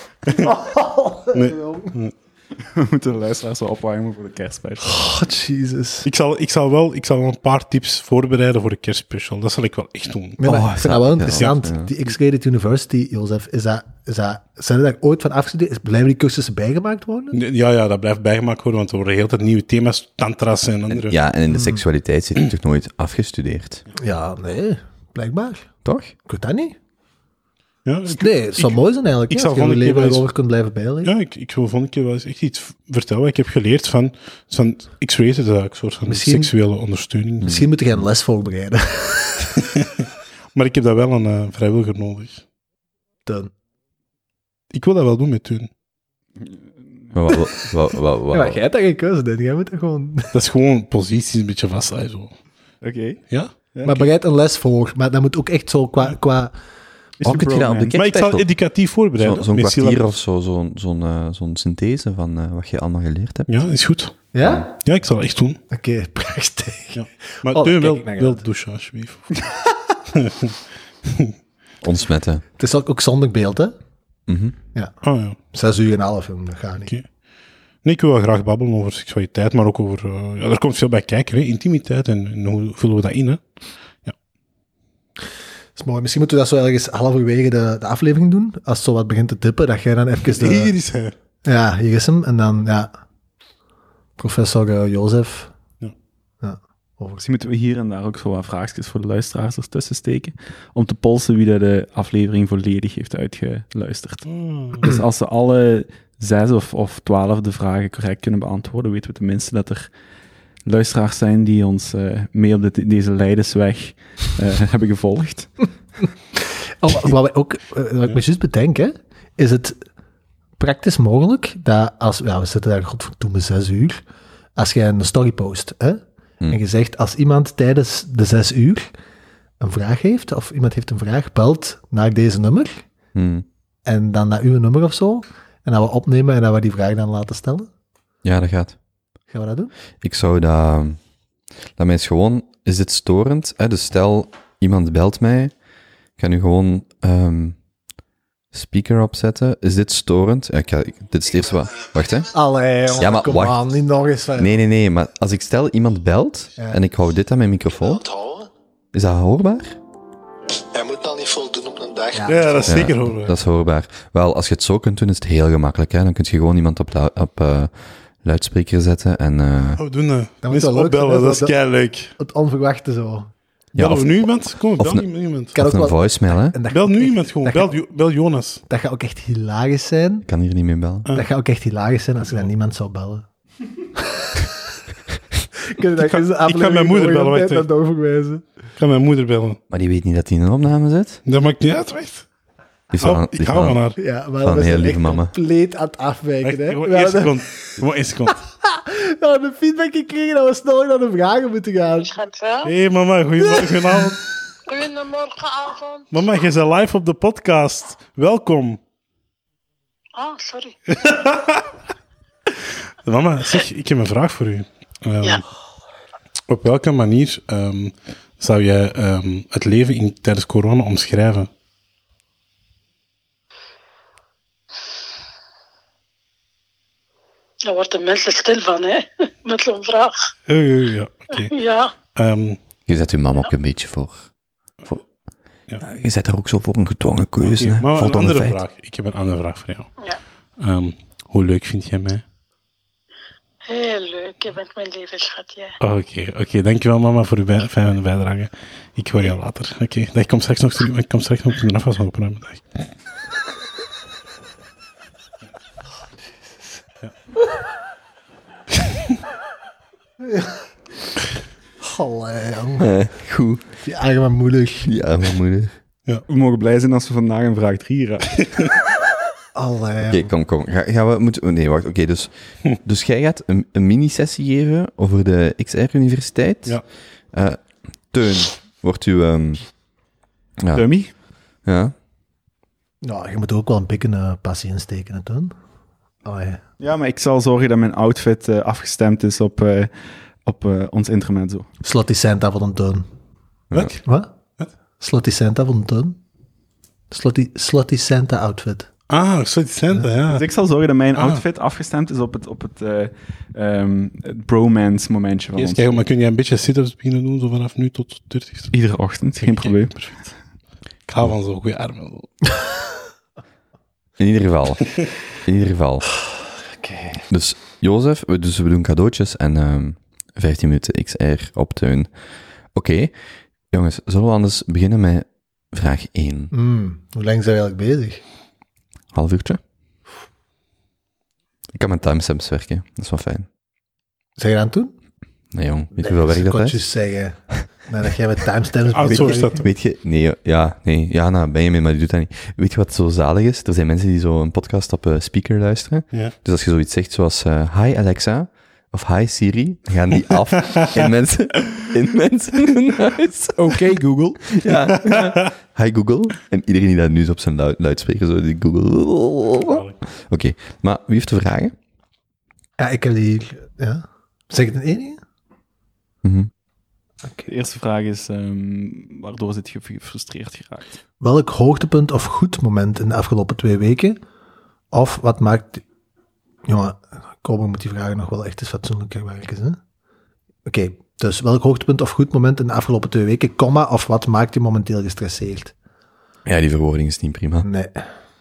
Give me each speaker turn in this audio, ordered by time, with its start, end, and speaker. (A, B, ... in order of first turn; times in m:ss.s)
0:00.4-0:01.9 A
0:01.3-0:02.1 B
0:02.7-0:05.1 C
0:04.8-0:06.0 A
0:06.0-0:10.4 B
0:10.4-0:17.4 A
0:10.4-0:11.9 D
0:17.3-0:21.1 B
0:20.9-0:23.8 D
0:21.5-0:21.8 A
0:24.0-0:25.7 A
0:25.8-0:26.1 D
0:26.2-0:26.8 A
0:27.8-0:30.2 B
0:28.1-0:31.1 A
0:31.0-0:37.6 B
0:36.0-0:36.5 A
0:37.4-0:39.6 A
0:40.5-0:42.4 B
0:44.7-0:45.7 B
0:46.4-0:47.1 C
0:47.1-0:48.6 D
0:48.3-0:50.3 A
0:50.3-0:52.3 B
0:52.8-0:54.0 C
0:53.8-0:56.5 A
0:57.2-0:58.0 C
0:57.2-0:58.5 D
0:58.0-1:00.1 B
0:59.2-1:03.5 D
1:03.5-1:04.2 B
1:04.3-1:04.7 A
1:04.8-1:05.6 B
1:05.7-1:08.4 A
1:06.9-1:09.4 B
1:10.1-1:10.5 B
1:11.0-1:11.3 B
1:11.8-1:12.4 D
1:12.6-1:13.7 A
1:14.3-1:14.6 D
1:15.0-1:15.4 B
1:15.5-1:16.9 A
1:17.8-1:23.4 B
1:25.8-1:30.7 A
1:30.2-1:31.1 B
1:31.4-1:32.9 A
1:34.2-1:35.5 A
1:36.4-1:37.2 A
1:37.2-1:49.9 C
1:44.2-1:44.9 B
1:50.6-1:55.5 C
1:56.4-1:59.8 A
2:00.6-2:04.0 A
2:04.6-2:08.9 A
2:09.6-2:12.8 A
2:13.1-2:13.4 D
2:13.8-2:17.7 A
2:18.2-2:18.8 D
2:19.3-2:19.7 A
2:20.0-2:21.0 D
2:21.8-2:25.5 D
2:26.2-2:27.6 D
2:28.5-2:32.3 D
2:32.3-2:34.5 A
2:33.0-2:33.6 D
2:34.4-2:38.0 D
2:37.8-2:38.5 E
2:38.9-2:39.8 D
2:40.7-2:42.9 E
2:42.1-2:42.7 A
2:42.3-2:43.3 B
2:42.7-2:49.8 D
2:49.8-2:52.1 B
2:50.4-2:51.6 A
2:52.2-2:53.3 A
2:53.7-2:55.5 B
2:53.8-2:56.6 D
2:55.5-2:57.7 A
2:56.7-2:58.6 B
2:58.7-3:00.3 A
3:00.2-3:01.1 D
3:01.1-3:03.2 A
3:04.0-3:04.4 A
3:05.6-3:08.4 A
3:06.0-3:07.6 B
3:08.8-3:09.6 B
3:09.7-3:11.2 D
3:11.2-3:12.2 B
3:12.9-3:13.8 D
3:13.0-3:14.0 B
3:14.0-3:17.8 A
3:14.4-3:15.3 D
3:16.4-3:18.4 B
3:18.6-3:22.1 A
3:22.0-3:22.7 F
3:22.6-3:24.2 B
3:24.7-3:26.1 F
3:26.1-3:28.8 B
3:30.1-3:30.8 F
3:30.9-3:31.6 B
3:33.0-3:35.4 B
3:36.5-3:41.5 B
3:47.6-3:50.3 F
3:50.5-3:51.5 B
3:51.3-3:51.9 F
3:52.1-3:52.6 B
3:52.9-3:54.2 D
3:55.8-3:58.6 D
3:57.5-3:59.9 B
4:00.6-4:02.2 B
4:03.7-4:05.7 F
4:05.8-4:12.7 B
4:20.2-4:20.5 A
4:21.8-4:22.9 A
4:22.8-4:23.6 D
4:23.8-4:24.9 A
4:24.8-4:25.7 D
4:26.3-4:28.6 C
4:29.5-4:30.3 A
4:30.1-4:39.6 D
4:40.6-4:41.0 D
4:40.7-4:41.1 C
4:41.6-4:41.9 D
4:43.0-4:45.5 A
4:46.2-4:46.6 A
4:46.8-4:49.9 C
4:50.4-4:51.7 C
4:51.8-4:53.1 A
4:53.7-4:54.0 D
4:53.7-4:54.0 B
4:54.0-4:54.3 A
4:55.0-4:56.2 A
4:57.1-4:58.9 A
4:59.1-5:00.4 B
5:00.3-5:06.0 C
5:01.2-5:01.4 B
5:05.6-5:08.7 B
5:08.7-5:10.3 C
5:09.4-5:09.7 B
5:11.1-5:12.5 B
5:14.2-5:16.0 D
5:16.8-5:17.2 A
5:17.3-5:22.1 D
5:22.7-5:23.1 D
5:23.7-5:26.5 D
5:26.5-5:28.2 A
5:29.1-5:29.6 D
5:31.7-5:33.5 D
5:34.4-5:34.9 A
5:35.5-5:36.8 D
5:36.0-5:39.6 A
5:38.9-5:39.7 B
5:39.0-5:53.8 D
5:53.6-5:54.4 C
5:54.4-6:01.7 D
5:59.6-6:00.0 B
6:02.8-6:05.2 A
6:06.2-6:06.5 D
6:07.5-6:11.0 C
6:11.2-6:14.2 A
6:14.9-6:15.8 A
6:16.6-6:19.8 A
6:20.6-6:25.7 A
6:26.4-6:27.7 D
6:27.6-6:28.0 A